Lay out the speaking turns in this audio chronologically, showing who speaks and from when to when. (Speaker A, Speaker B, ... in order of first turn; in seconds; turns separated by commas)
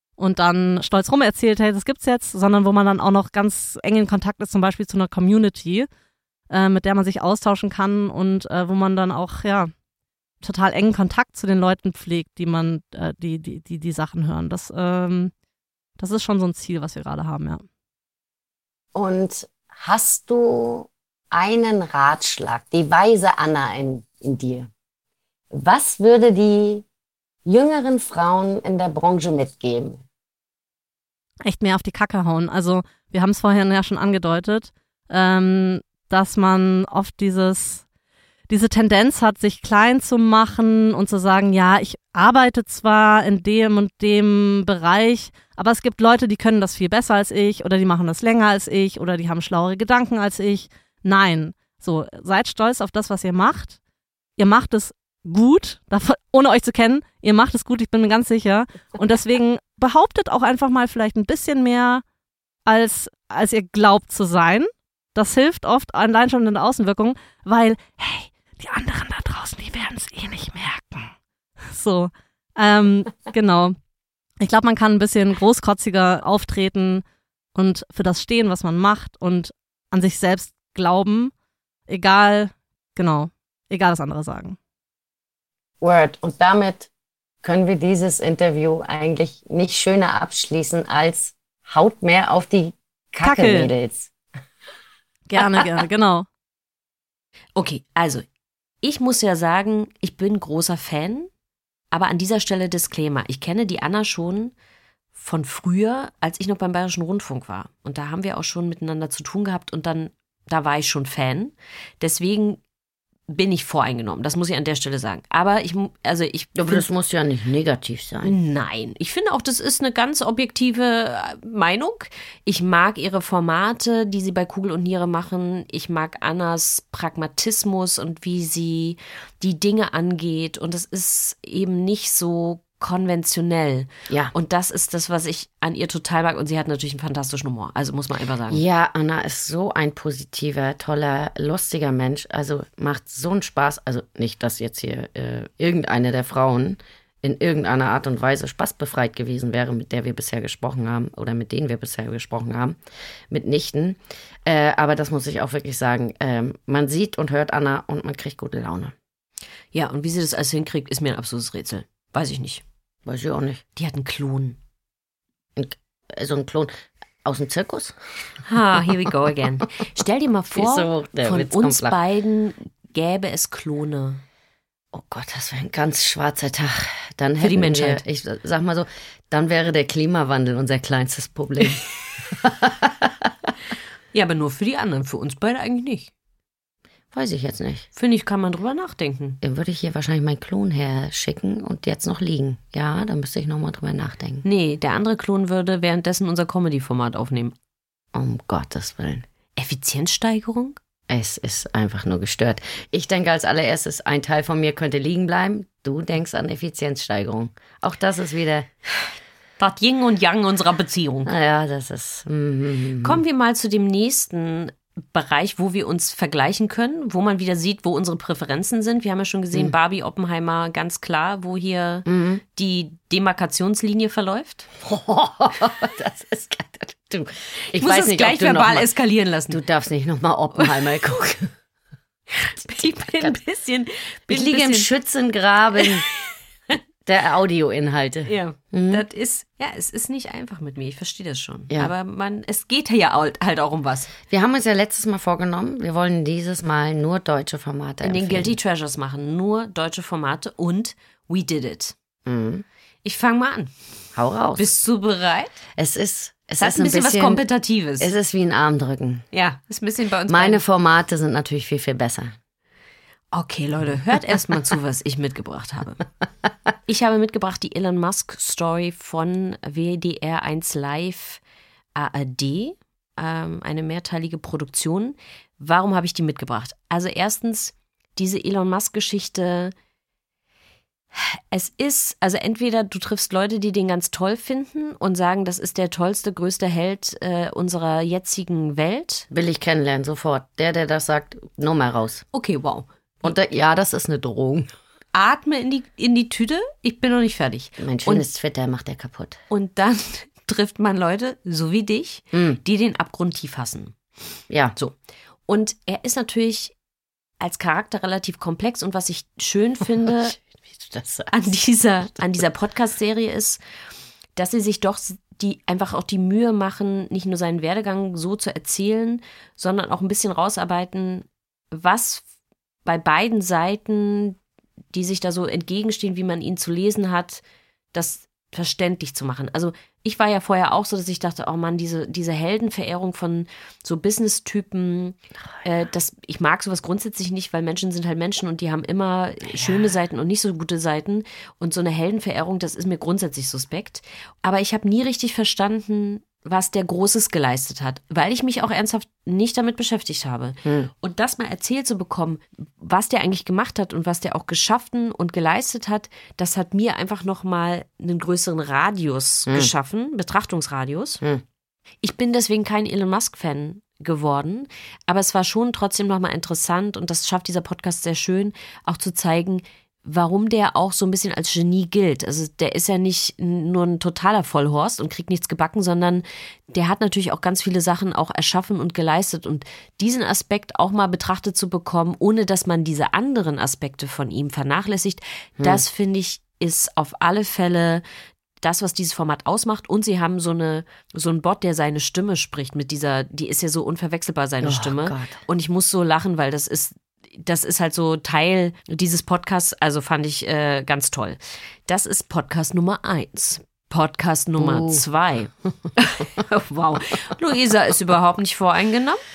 Speaker A: 0.2-5.9, Speaker A: 6.5-9.7, Speaker A: 10.4-15.3, Speaker A: 16.0-17.6, Speaker B: 18.9-24.7, Speaker B: 25.5-26.8, Speaker B: 27.4-30.0, Speaker A: 31.4-37.8, Speaker A: 38.5-53.8, Speaker A: 54.4-62.0, Speaker A: 62.6-71.1, Speaker A: 71.7-73.8, Speaker A: 74.4-77.0, Speaker A: 77.5-81.3, Speaker A: 81.9-84.6, Speaker B: 85.8-86.9, Speaker B: 87.4-94.1, Speaker A: 93.2-93.7, Speaker A: 95.3-96.3, Speaker C: 97.5-98.2, Speaker C: 98.8-101.3, Speaker C: 101.9-104.5, Speaker C: 105.1-112.6, Speaker C: 113.3-116.8, Speaker B: 116.5-118.3, Speaker C: 118.2-138.6, Speaker B: 138.5-152.8, Speaker B: 153.3-158.9, Speaker C: 159.7-162.6, Speaker B: 163.1-163.6, Speaker C: 163.8-164.6, Speaker B: 165.6-168.0, Speaker C: 168.4-174.2, Speaker B: 170.5-172.0, Speaker B: 174.9-183.3, Speaker C: 177.4-178.0, Speaker C: 184.1-186.1, Speaker B: 187.1-187.8, Speaker C: 187.9-189.4, Speaker B: 189.4-194.4, Speaker C: 194.4-197.5, Speaker B: 198.1-199.2, Speaker C: 199.6-200.8, Speaker B: 201.1-208.7, Speaker C: 209.6-211.3, Speaker B: 211.2-213.2, Speaker C: 213.0-224.7, Speaker B: 222.1-222.4, Speaker B: 224.8-228.9, Speaker C: 227.7-229.6, Speaker B: 229.5-231.5, Speaker C: 232.3-234.9, Speaker B: 232.7-233.3, Speaker B: 234.3-236.0, Speaker B: 237.1-239.0, Speaker C: 238.2-244.1, Speaker B: 244.3-248.6, Speaker C: 248.0-251.9, Speaker B: 252.2-252.6, Speaker C: 253.0-253.7, Speaker B: 254.1-254.7, Speaker C: 254.6-255.6, Speaker B: 255.8-257.4, Speaker C: 256.6-258.1, Speaker B: 258.0-259.2, Speaker C: 259.3-260.6, Speaker B: 260.3-262.3, Speaker C: 263.3-266.0, Speaker C: 266.9-271.4, Speaker C: 271.9-279.7, Speaker C: 281.1-289.3, Speaker B: 289.3-292.2, Speaker C: 292.3-292.9, Speaker B: 293.2-294.7, Speaker C: 295.1-298.3, Speaker B: 297.8-299.4, Speaker C: 299.5-304.0, Speaker B: 302.3-302.6, Speaker B: 304.5-304.8, Speaker C: 305.5-306.7, Speaker C: 307.4-310.4, Speaker B: 310.8-311.3, Speaker C: 311.3-313.6, Speaker C: 314.4-322.2, Speaker C: 322.8-324.4, Speaker C: 324.9-327.4, Speaker C: 327.9-361.2, Speaker B: 339.5-339.8, Speaker B: 350.6-350.9, Speaker C: 362.0-388.0, Speaker C: 388.6-409.2, Speaker B: 394.6-395.4, Speaker B: 404.6-405.0